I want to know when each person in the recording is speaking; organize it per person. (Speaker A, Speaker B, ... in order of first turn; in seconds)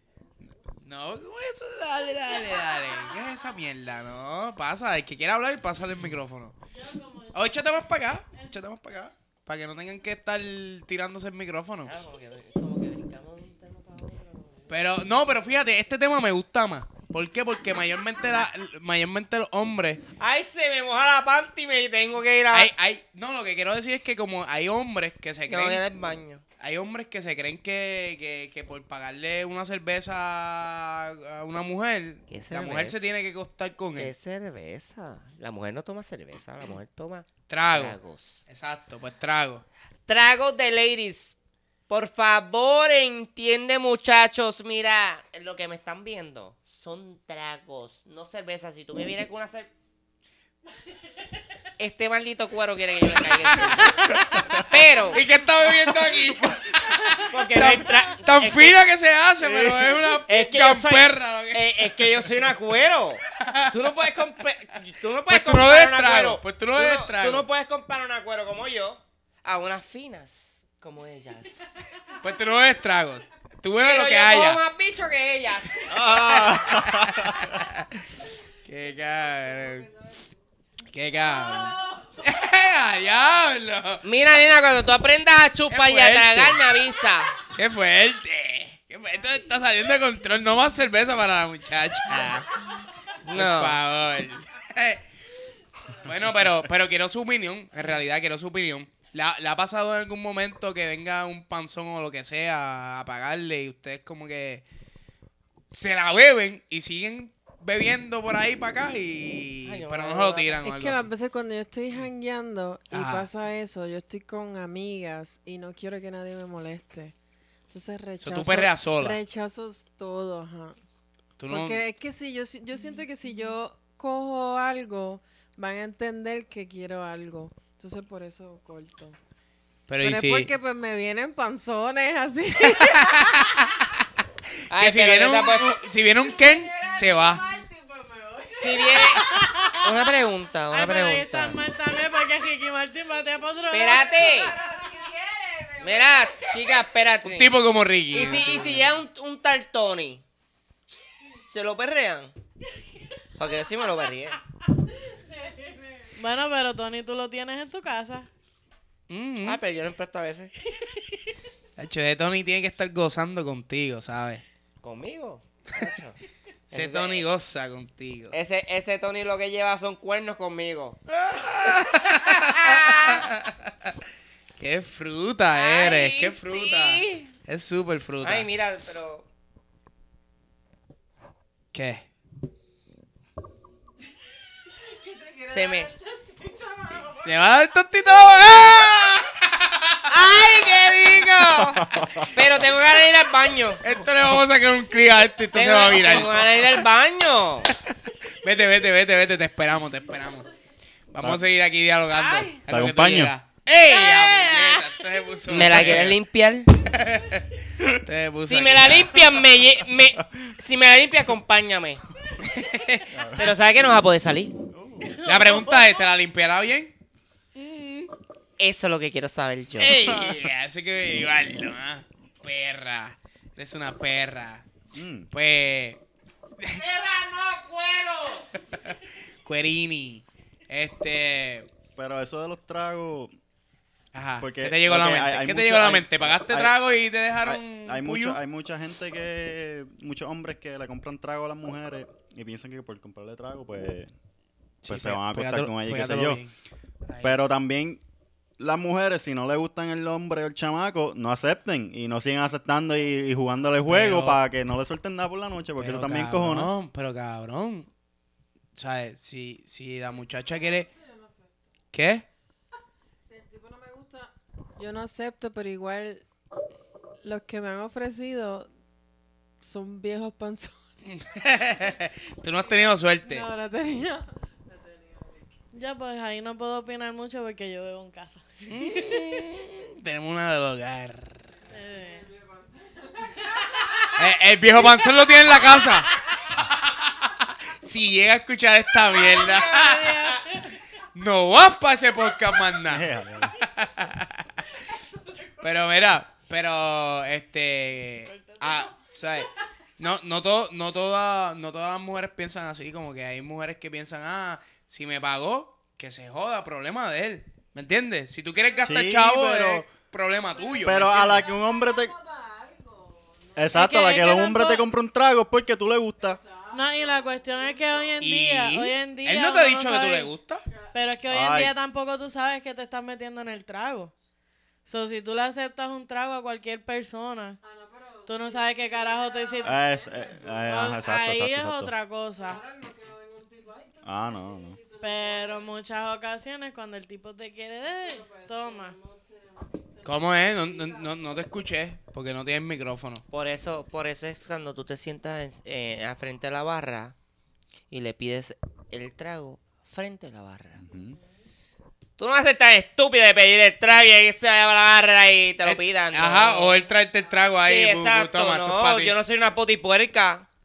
Speaker A: 0.8-6.5, 7.3-11.9, 14.7-20.0, 22.5-25.8, 26.6-34.1, 37.5-38.0, 38.5-39.6, 53.5-54.0, 55.1-62.5, 63.3-63.9, 65.3-67.5, 72.2-74.6, 75.9-78.0, 78.6-79.9, 80.9-84.0, 85.7-86.8, 87.4-92.6, 93.3-95.0, 95.9-104.6, 105.7-111.1, 112.9-113.3, 118.2-119.2, 121.4-121.8, 129.9-130.5, 132.6-133.9, 134.7-137.4, 147.2-148.9, 159.1-159.6, 161.8-164.4, 166.7-168.3, 171.2-173.9, 174.6-178.5, 181.7-182.1, 187.2-190.1, 193.8-196.8, 197.9-200.5, 201.1-206.2, 206.8-209.4, 212.4-213.3, 215.1-216.9, 217.6-218.1, 219.8-224.6, 225.3-226.0, 228.7-231.7, 234.1-238.4, 244.8-246.5, 247.1-247.4, 253.8-254.4, 255.8-257.9, 258.8-260.9, 261.9-262.2, 271.1-273.4, 278.7-281.5, 284.1-290.6, 291.1-294.4, 295.6-311.5, 318.2-320.6, 340.0-343.2, 355.6-359.1
Speaker B: 6.7-7.4, 139.1-139.9, 140.7-144.2, 156.2-158.3, 204.1-204.8, 275.7-278.4, 281.7-282.2, 289.2-290.4, 313.7-314.8, 316.7-320.3, 320.9-324.1, 324.9-327.6, 328.3-329.8, 330.7-332.6, 335.0-338.9
Speaker C: 11.8-14.7, 20.2-22.7, 25.5-26.4, 32.3-33.0, 33.9-38.4, 40.1-41.4, 41.9-49.7, 51.8-55.2, 57.3-58.8, 60.2-71.7, 73.8-76.5, 84.0-87.3, 93.2-93.8, 109.6-110.7, 134.7-135.8, 138.5-141.6, 143.7-144.6, 145.8-147.5, 148.1-150.2, 151.3-152.3, 153.4-154.4, 159.4-160.5, 164.8-166.2, 166.7-167.2, 168.3-171.0, 171.7-173.3, 175.5-177.3, 178.2-179.3, 185.5-185.9, 190.1-193.8, 195.5-197.7, 202.1-202.6, 205.5-206.8, 208.4-212.0, 213.3-214.5, 218.6-220.2, 226.7-228.5, 343.3-347.1, 347.9-350.8, 352.2-356.8, 357.6-360.5
Speaker D: 59.4-59.9, 75.9-77.6, 191.5-192.3, 202.7-203.3, 213.1-213.5, 214.7-215.2, 220.0-220.4, 224.9-225.3, 231.9-233.3, 234.4-236.8, 237.4-244.1, 244.8-246.4, 247.2-248.0, 248.6-256.7, 292.9-293.6, 308.8-309.8, 310.8-312.1, 313.5-316.4, 321.3-321.7, 329.6-331.9, 334.0-334.8, 350.8-351.1
Speaker E: 79.4-80.2, 81.4-81.9, 110.6-117.1, 117.7-120.8, 121.5-129.2, 130.0-133.6, 136.3-139.1, 144.0-146.7, 155.4-156.1, 184.8-187.3, 260.6-261.5, 263.2-266.2, 267.2-268.7, 269.6-270.8, 273.2-275.5, 282.0-284.1, 310.8-313.8, 316.2-318.2, 320.7-320.9, 327.6-331.1, 332.4-335.7, 338.0-341.1